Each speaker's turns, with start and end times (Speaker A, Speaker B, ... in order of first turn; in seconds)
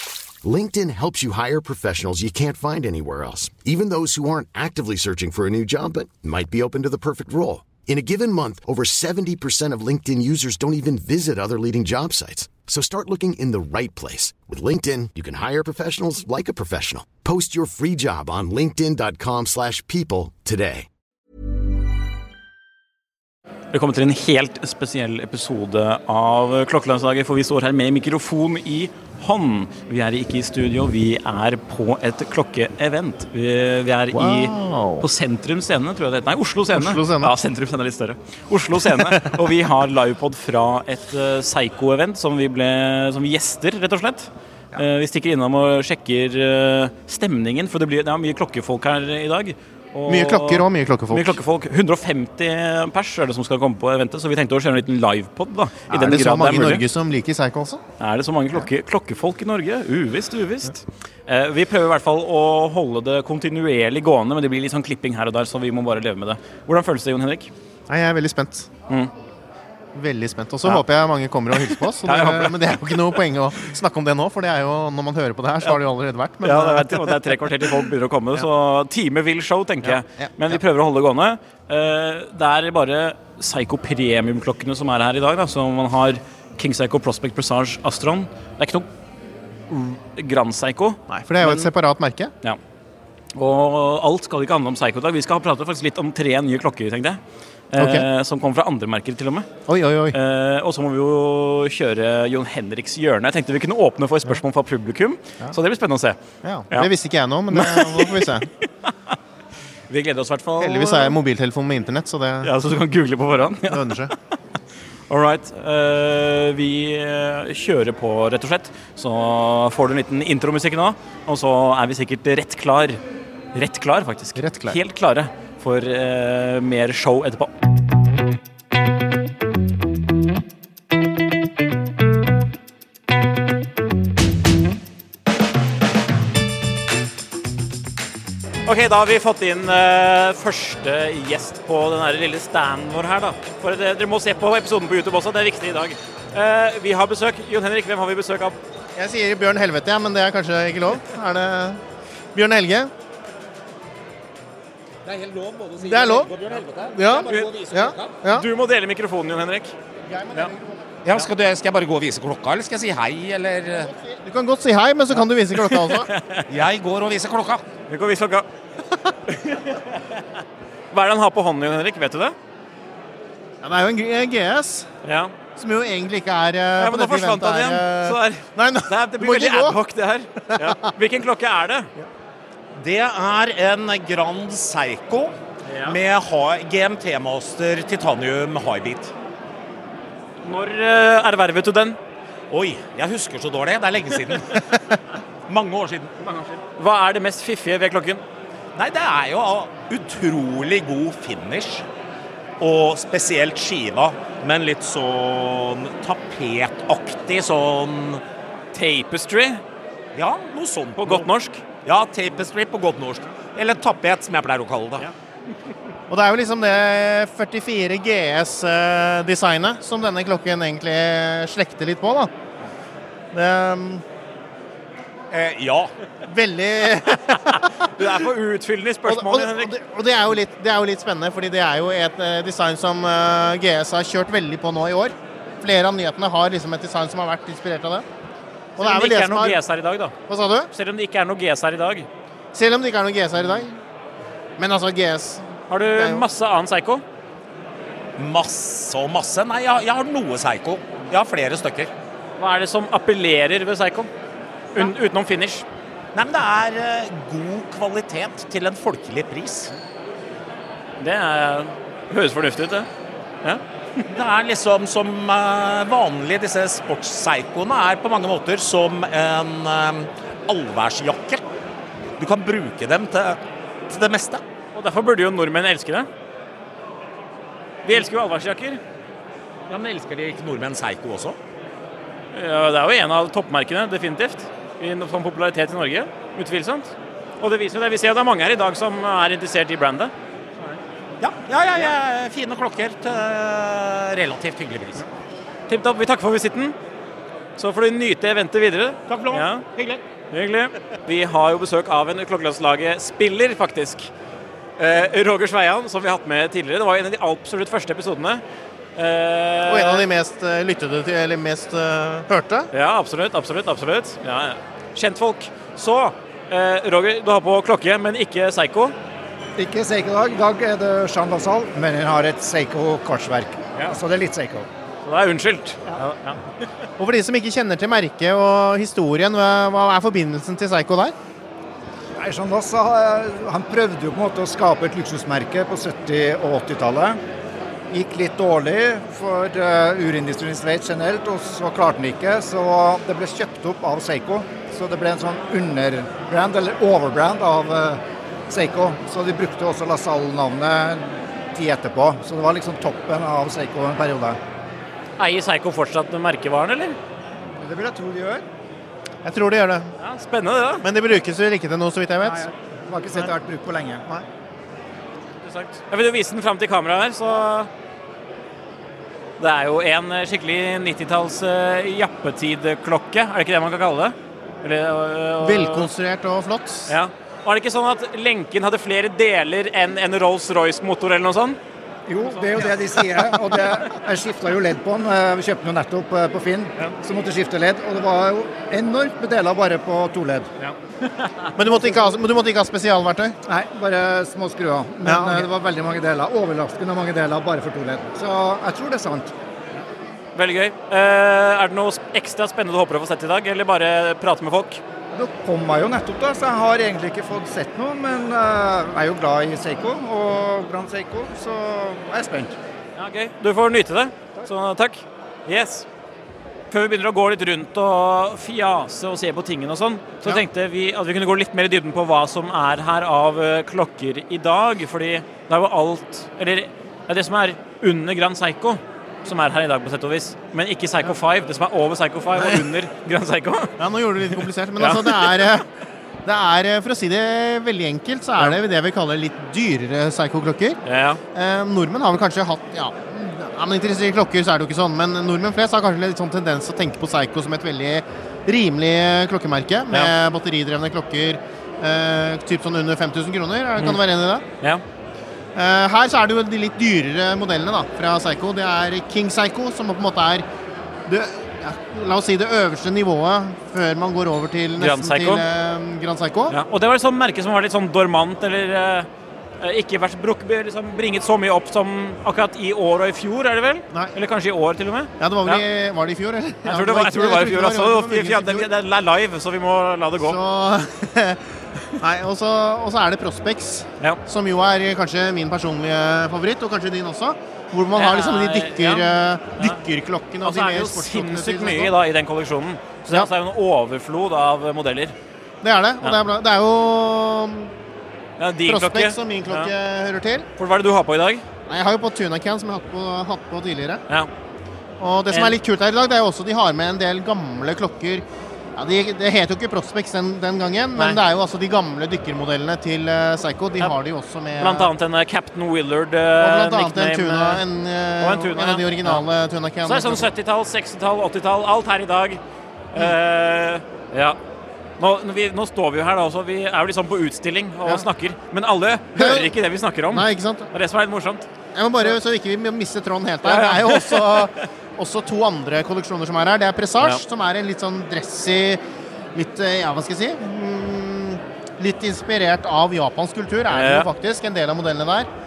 Speaker A: 0.4-20.9
Speaker B: 23.7-56.8, 58.0-67.5, 71.6-72.6, 76.4-88.9, 89.7-91.7, 93.3-97.2, 97.7-99.5, 100.1-106.2, 107.5-108.3, 109.9-111.2, 112.4-113.8, 115.1-123.0, 123.5-127.5, 138.7-148.6, 157.2-157.5, 158.3-159.7, 165.7-166.4, 167.9-168.4, 169.5-169.7, 170.9-172.3, 175.0-175.3, 176.8-181.9, 185.7-186.0, 190.4-192.0, 196.8-198.2, 208.7-209.6, 210.9-211.6, 228.0-229.7, 238.8-240.1, 240.7-242.1, 245.7-247.0, 252.4-254.1, 254.7-255.7, 261.0-262.9, 263.4-264.0, 274.8-276.1, 277.9-278.8, 282.3-290.1, 295.7-296.8, 297.6-299.7, 300.3-304.1, 304.8-308.4, 309.0-310.1, 312.7-318.9, 325.1-326.4, 355.2-357.0, 360.0-360.9, 365.4-367.7, 369.4-375.9, 376.9-381.6, 382.2-382.7, 390.6-391.5, 400.4-404.8, 413.0-415.9, 416.7-433.7, 434.3-435.5, 440.9-441.2, 464.8-465.4, 466.5-469.1, 469.6-475.6, 476.6-480.4, 487.9-489.8, 490.4-495.1, 498.4-499.7, 500.6-501.4, 505.3-505.6, 514.6-517.6, 518.2-519.2, 519.8-522.4, 522.9-524.4, 525.0-531.5, 533.5-534.5, 543.7-544.1
Speaker C: 34.1-35.0, 36.7-37.3, 39.0-39.3, 50.1-51.4, 55.9-57.8, 67.9-68.7, 69.9-77.8, 79.8-80.6, 91.1-92.3, 97.8-98.0, 99.7-100.2, 106.4-108.5, 110.6-112.5, 113.7-114.1, 124.4-124.8, 148.9-151.8, 152.3-152.9, 155.8-156.3, 156.9-158.4, 160.1-160.7, 163.9-166.1, 173.6-174.9, 175.6-179.8, 180.5-180.7, 216.1-222.3, 223.3-224.0, 226.2-227.7, 229.1-238.0, 238.8-239.6, 240.3-240.7, 242.5-243.7, 244.6-246.2, 309.7-312.7, 327.0-331.1, 359.2-359.9, 360.8-362.4, 375.4-376.9, 391.6-393.4, 395.1-395.5, 432.4-432.6, 433.8-435.6, 436.2-440.8, 441.4-454.4, 455.6-460.4, 461.1-466.6, 475.2-478.7, 480.2-481.4, 482.0-491.9, 495.6-497.7, 498.7-500.4, 501.7-504.0, 505.0-508.2, 508.8-514.9, 516.4-520.3, 529.1-529.5, 530.1-530.7, 531.8-538.8, 539.4-545.3
Speaker D: 155.1-158.1, 161.1-163.9, 166.5-167.6, 182.8-185.3, 185.8-189.1, 192.5-194.6, 195.5-196.5, 198.8-201.8, 202.6-208.2, 210.2-211.3, 211.8-215.1, 225.3-225.9, 248.2-251.9, 256.1-259.7, 264.1-271.4, 272.2-273.4, 273.9-274.4, 279.7-281.4, 291.2-295.0, 299.1-300.0
Speaker E: 319.6-324.7, 332.2-337.2, 337.9-354.4, 357.6-358.4, 362.2-364.0, 382.1-390.5, 391.7-392.1, 393.5-399.3, 405.1-412.5